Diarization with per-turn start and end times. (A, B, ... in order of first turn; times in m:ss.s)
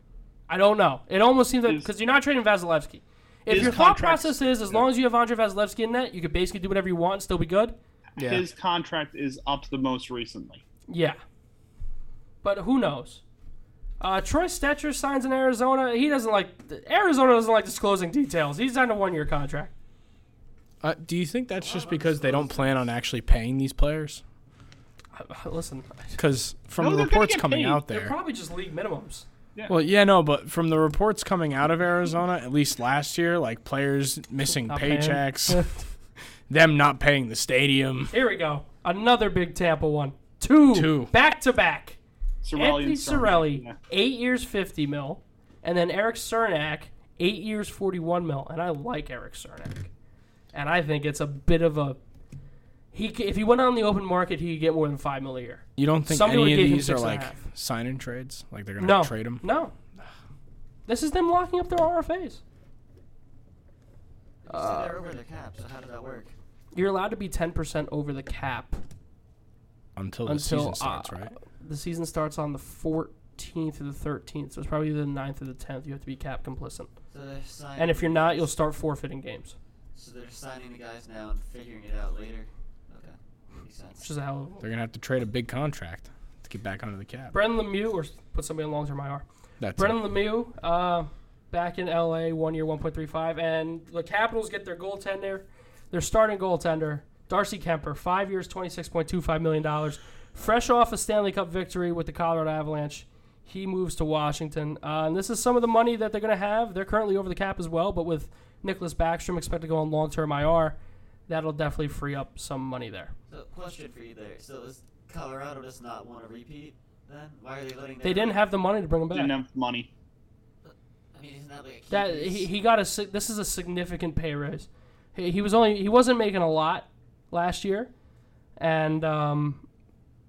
0:00.5-0:07.8 A
0:03.5-0:04.8 B
0:08.2-0:08.4 C
0:08.2-0:10.6 B
0:10.9-0:11.2 A
0:12.4-0:13.2 A
0:14.0-0:19.7 A
0:20.8-0:24.2 C
0:21.6-0:22.9 D
0:25.1-0:26.2 A
0:26.2-0:28.2 C
0:26.8-0:27.8 B
0:27.8-0:29.2 A
0:29.7-0:35.7 C
0:34.5-0:35.8 A
0:36.5-0:38.1 C
0:38.1-0:42.0 A
0:40.7-0:41.1 C
0:42.4-0:43.8 B
0:42.5-0:49.9 A
0:50.5-0:52.0 A
0:52.9-0:57.4 A
0:55.8-0:59.4 C
0:58.8-0:59.7 A
1:00.9-1:02.4 A
1:04.4-1:06.3 D
1:04.5-1:05.0 A
1:06.7-1:08.8 A
1:10.0-1:11.3 C
1:10.2-1:16.9 A
1:17.1-1:18.5 D
1:17.8-1:19.5 A
1:19.9-1:24.1 D
1:24.0-1:24.6 A
1:24.6-1:27.3 C
1:27.3-1:29.2 A
1:29.6-1:30.0 C
1:29.8-1:50.8 A
1:51.3-1:53.1 A
1:53.3-1:58.4 D
1:58.0-1:59.3 A
1:59.1-1:59.9 B
2:00.6-2:02.5 D
2:01.9-2:07.9 A
2:08.6-2:09.6 A